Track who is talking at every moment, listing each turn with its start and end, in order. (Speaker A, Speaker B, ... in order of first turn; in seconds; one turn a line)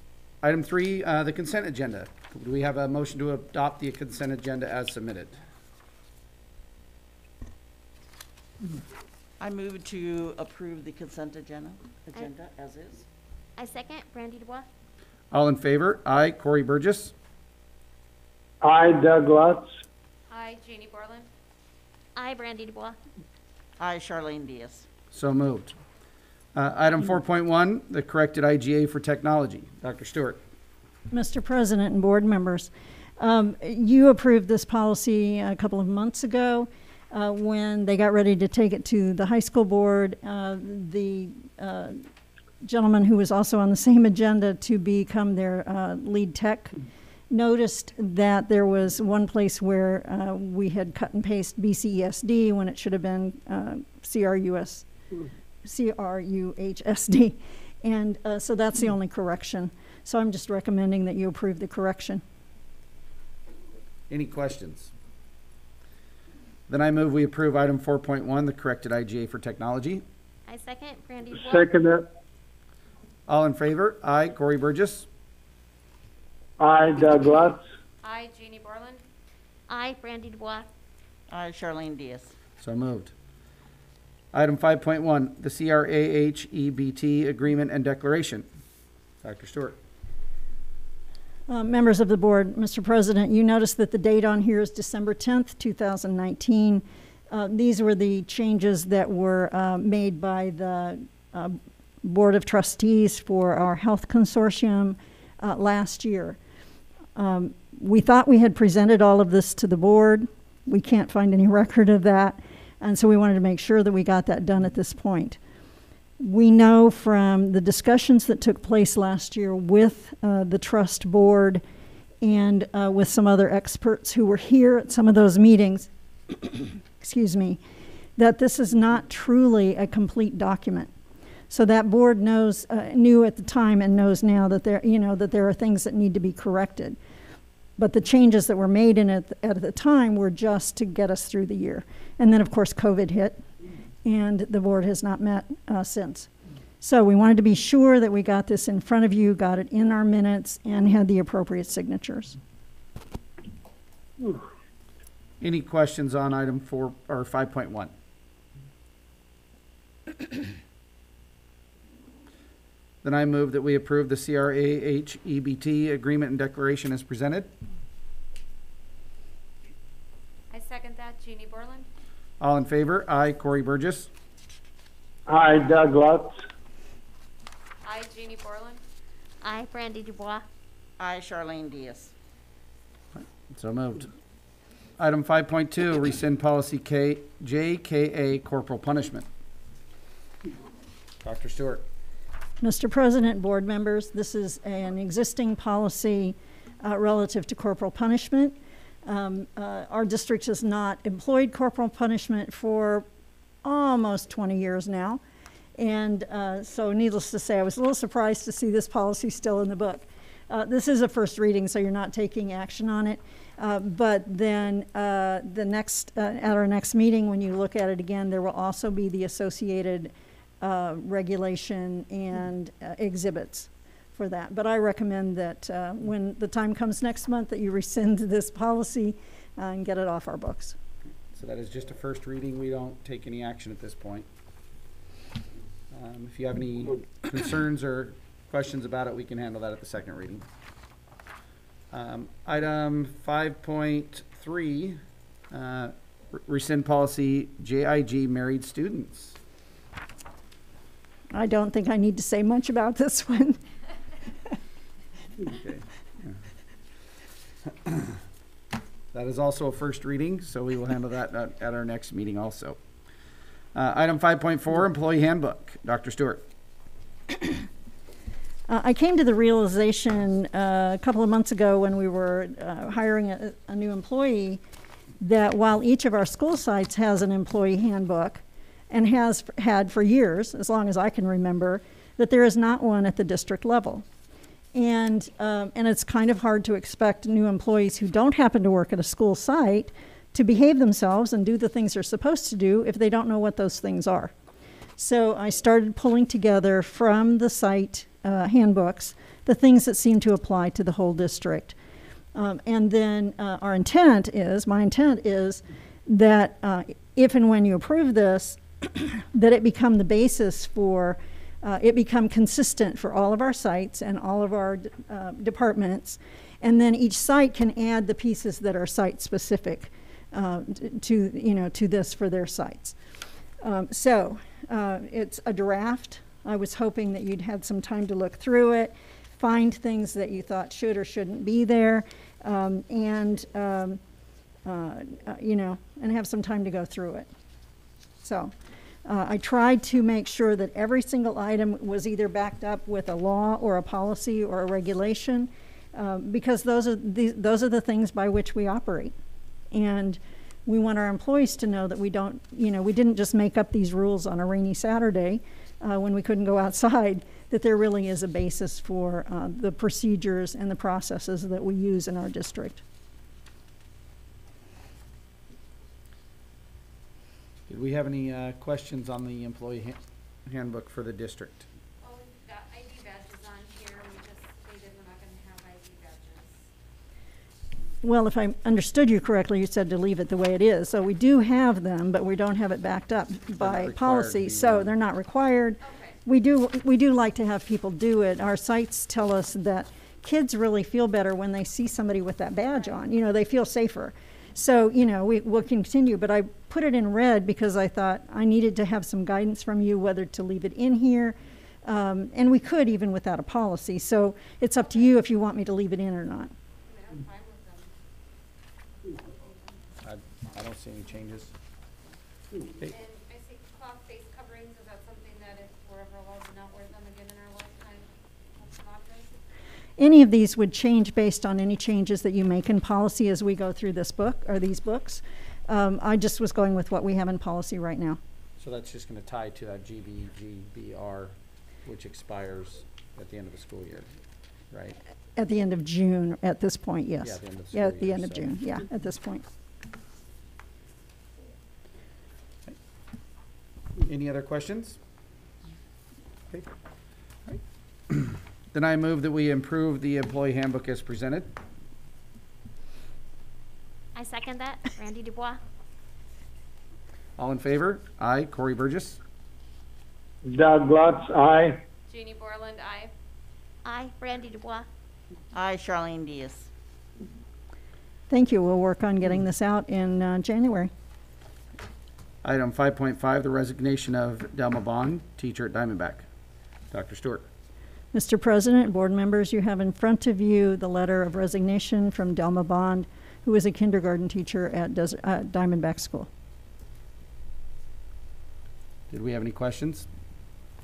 Speaker A: 0.4-5.4
Speaker B: 9.4-13.1
Speaker C: 13.6-14.7
Speaker A: 15.3-17.1
Speaker D: 18.6-19.7
Speaker E: 20.3-21.3
Speaker C: 22.1-23.0
Speaker B: 23.8-24.9
Speaker A: 25.1-25.8
Speaker A: 26.5-30.4
Speaker F: 31.1-42.0
Speaker F: 42.6-46.8
Speaker F: 47.3-54.8
Speaker F: 55.6-62.2
Speaker A: 64.1-64.9
Speaker A: 66.7-70.0
Speaker C: 70.5-71.7
Speaker D: 71.4-72.0
Speaker A: 73.3-75.1
Speaker D: 76.6-77.6
Speaker E: 78.0-79.0
Speaker C: 79.7-80.7
Speaker B: 81.3-82.3
Speaker A: 82.6-83.1
Speaker A: 84.3-88.5
Speaker A: 89.2-89.8
Speaker F: 91.5-106.4
Speaker F: 107.2-115.4
Speaker F: 116.2-121.6
Speaker F: 122.2-127.6
Speaker F: 128.2-130.9
Speaker F: 131.5-137.0
Speaker F: 137.8-143.4
Speaker F: 144.0-146.3
Speaker F: 146.8-152.4
Speaker A: 155.4-157.9
Speaker A: 163.0-167.5
Speaker E: 170.5-171.9
Speaker A: 172.4-174.1
Speaker D: 175.3-176.3
Speaker E: 177.8-178.8
Speaker C: 179.4-180.4
Speaker B: 181.0-182.1
Speaker A: 183.1-184.1
Speaker A: 185.0-189.3
Speaker A: 191.2-191.8
Speaker F: 192.6-203.1
Speaker F: 203.6-205.2
Speaker F: 205.8-230.8
Speaker A: 231.3-234.3
Speaker A: 235.9-240.5
Speaker A: 241.9-249.4
Speaker F: 251.3-253.6
Speaker A: 255.4-256.4
Speaker A: 257.6-258.2
Speaker A: 259.1-262.8
Speaker A: 263.7-266.4
Speaker F: 268.7-274.6
Speaker F: 275.2-284.0
Speaker F: 284.7-294.3
Speaker F: 295.0-301.8
Speaker F: 302.3-322.9
Speaker F: 323.6-334.0
Speaker F: 334.6-337.3
Speaker F: 338.2-338.5
Speaker F: 339.0-349.1
Speaker F: 349.7-362.8
Speaker A: 367.7-371.6
Speaker E: 372.0-376.7
Speaker F: 378.0-406.5
Speaker A: 383.6-384.9
Speaker E: 385.8-386.2
Speaker E: 406.8-407.9
Speaker E: 409.1-410.0
Speaker A: 410.0-411.5
Speaker E: 412.8-419.4
Speaker F: 420.0-428.2
Speaker A: 428.6-434.1
Speaker A: 434.7-435.0
Speaker F: 435.4-439.4
Speaker A: 437.2-438.5
Speaker A: 444.0-445.0
Speaker A: 447.4-451.5
Speaker C: 454.1-455.6
Speaker A: 457.4-459.2
Speaker D: 460.4-461.8
Speaker E: 462.1-463.1
Speaker C: 463.8-464.9
Speaker B: 465.5-466.7
Speaker F: 468.3-470.9
Speaker A: 472.4-476.2
Speaker A: 476.9-477.5
Speaker F: 478.1-486.3
Speaker A: 489.1-490.1